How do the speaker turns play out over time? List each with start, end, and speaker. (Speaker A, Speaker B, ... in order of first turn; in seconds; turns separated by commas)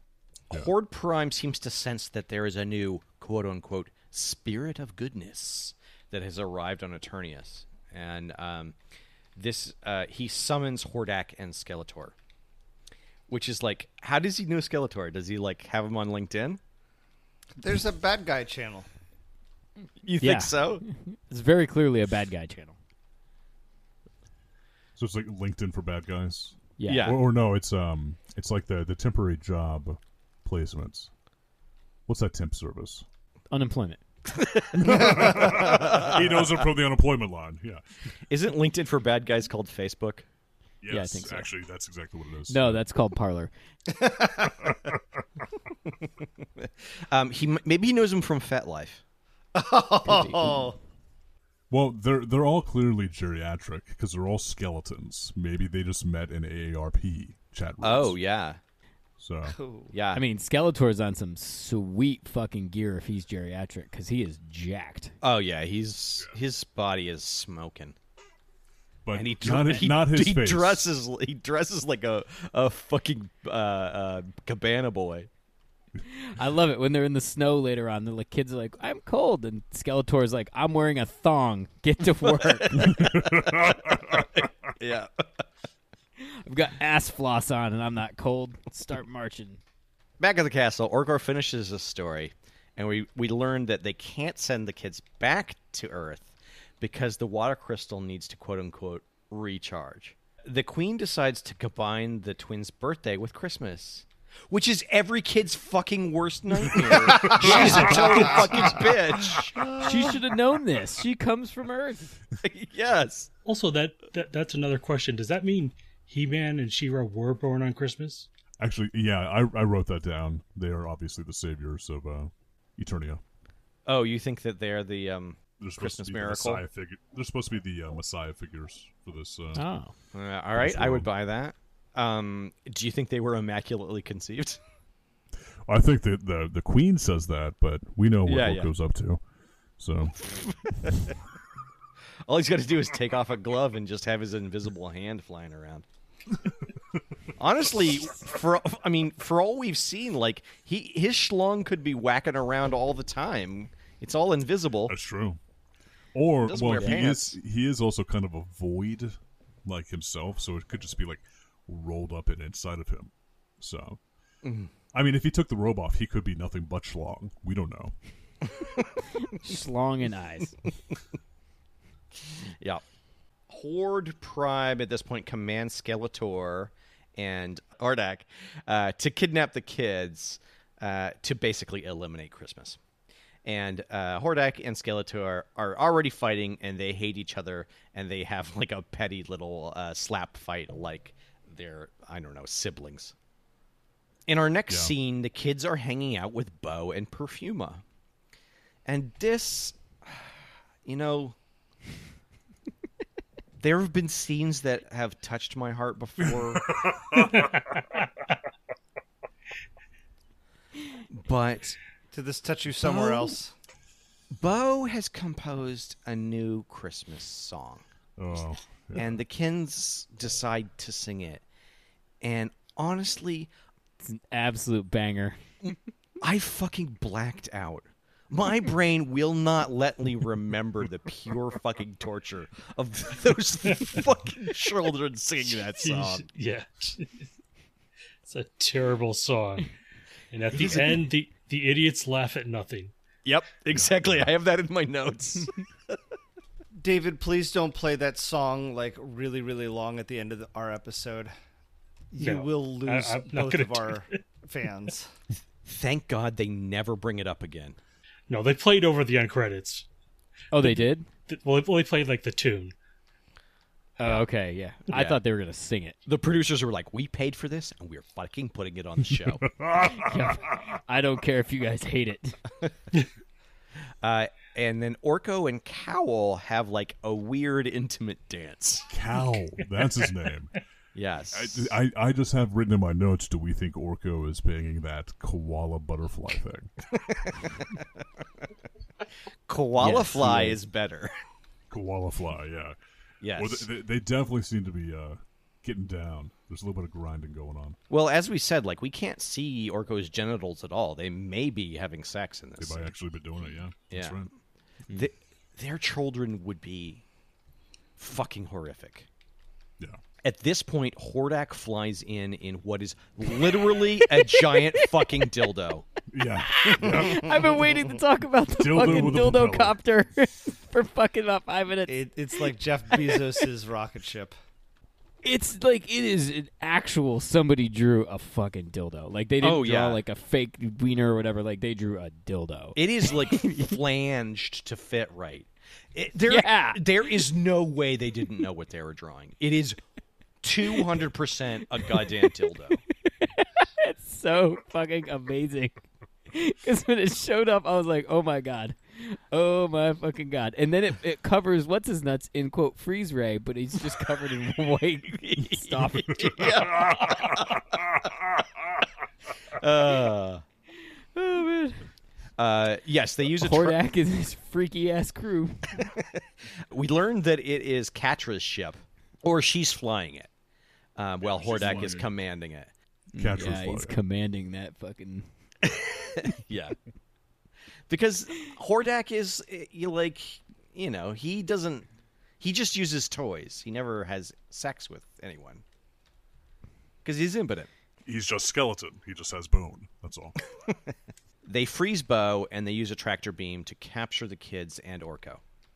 Speaker A: 0.5-8.8, Speaker A: 9.3-12.1, Speaker A: 13.3-16.6, Speaker B: 17.6-18.9, Speaker A: 20.0-20.8, Speaker C: 20.1-22.7, Speaker D: 24.9-31.1, Speaker C: 26.8-27.2, Speaker A: 26.9-27.2, Speaker D: 32.1-33.0, Speaker C: 33.5-34.0, Speaker A: 34.3-36.6, Speaker D: 34.7-37.8, Speaker A: 38.3-40.2, Speaker D: 40.8-42.8, Speaker C: 40.9-41.5, Speaker C: 42.5-43.5, Speaker B: 43.9-44.5, Speaker A: 46.6-49.0, Speaker B: 49.5-50.8, Speaker C: 50.0-50.7, Speaker D: 51.7-58.2, Speaker A: 57.8-58.6, Speaker D: 59.2-59.5, Speaker B: 59.5-59.9, Speaker A: 59.9-60.2, Speaker C: 60.1-65.1, Speaker A: 65.2-68.0, Speaker D: 69.0-70.9, Speaker A: 69.1-75.3, Speaker C: 76.1-83.0, Speaker A: 82.2-85.2, Speaker D: 82.7-84.2, Speaker C: 86.4-89.6, Speaker A: 90.2-109.7, Speaker D: 107.2-107.7, Speaker E: 107.3-108.8, Speaker B: 107.4-108.7, Speaker B: 109.6-110.1, Speaker C: 109.8-112.2, Speaker A: 112.4-113.3, Speaker E: 113.5-118.3, Speaker D: 118.6-123.2, Speaker A: 123.8-126.6, Speaker D: 125.6-129.6, Speaker C: 129.5-129.9, Speaker A: 130.1-134.6, Speaker D: 130.6-131.1, Speaker D: 135.7-139.2, Speaker A: 138.2-138.7, Speaker D: 139.8-140.2, Speaker A: 140.3-141.1, Speaker A: 142.2-145.8, Speaker A: 147.4-154.9, Speaker D: 154.9-155.4, Speaker D: 156.1-164.0, Speaker A: 156.4-157.4, Speaker A: 164.4-164.7, Speaker D: 164.9-167.9, Speaker C: 169.2-170.6, Speaker A: 172.4-172.8, Speaker A: 173.5-182.8, Speaker A: 183.4-193.1, Speaker A: 194.3-197.8, Speaker D: 194.7-194.9, Speaker A: 198.8-200.3, Speaker A: 200.8-201.3, Speaker A: 203.6-206.7, Speaker D: 206.8-207.4, Speaker E: 207.4-207.8, Speaker A: 211.1-211.8, Speaker B: 212.1-213.5, Speaker A: 214.3-217.8, Speaker D: 218.2-219.1, Speaker A: 218.9-221.4, Speaker A: 222.2-223.5, Speaker C: 224.0-225.4, Speaker A: 226.2-236.3, Speaker E: 235.8-237.2, Speaker E: 238.2-239.7, Speaker E: 240.3-242.9, Speaker A: 240.5-241.0, Speaker A: 243.2-245.5, Speaker D: 243.7-244.3, Speaker B: 246.8-251.3, Speaker B: 252.1-255.1, Speaker E: 252.2-254.1, Speaker A: 255.7-257.8, Speaker E: 258.3-259.9, Speaker C: 260.5-261.1, Speaker E: 260.6-262.7, Speaker C: 264.0-266.0, Speaker A: 264.9-265.2, Speaker A: 266.1-269.4, Speaker D: 269.2-270.5, Speaker C: 269.8-272.4, Speaker A: 274.0-278.9, Speaker D: 278.9-280.5, Speaker E: 279.3-280.1, Speaker A: 280.9-281.8, Speaker D: 281.3-286.7, Speaker A: 287.1-288.0, Speaker A: 289.5-291.1, Speaker C: 289.8-290.6, Speaker D: 291.7-292.7, Speaker A: 293.2-293.7, Speaker D: 293.3-297.8, Speaker A: 297.9-302.9, Speaker D: 302.6-304.3, Speaker A: 303.9-304.2, Speaker A: 304.9-307.0, Speaker A: 308.0-309.1, Speaker A: 310.2-315.9, Speaker C: 314.2-314.9, Speaker D: 316.1-317.3, Speaker C: 316.4-323.2, Speaker D: 318.5-319.8, Speaker B: 321.9-324.3, Speaker C: 325.2-333.8, Speaker A: 329.4-330.0, Speaker A: 332.7-339.8, Speaker C: 336.3-337.2, Speaker A: 340.4-342.8, Speaker C: 343.1-356.7, Speaker A: 355.3-358.1, Speaker A: 359.5-360.4, Speaker C: 361.1-361.9, Speaker A: 362.4-363.8, Speaker C: 363.4-365.9, Speaker A: 365.8-370.3, Speaker A: 370.9-372.7, Speaker D: 371.2-372.1, Speaker C: 373.1-375.3, Speaker D: 373.2-373.9, Speaker A: 375.6-376.8, Speaker A: 377.9-381.9, Speaker A: 382.4-385.6, Speaker A: 387.0-387.7, Speaker D: 388.1-390.4, Speaker A: 391.4-395.4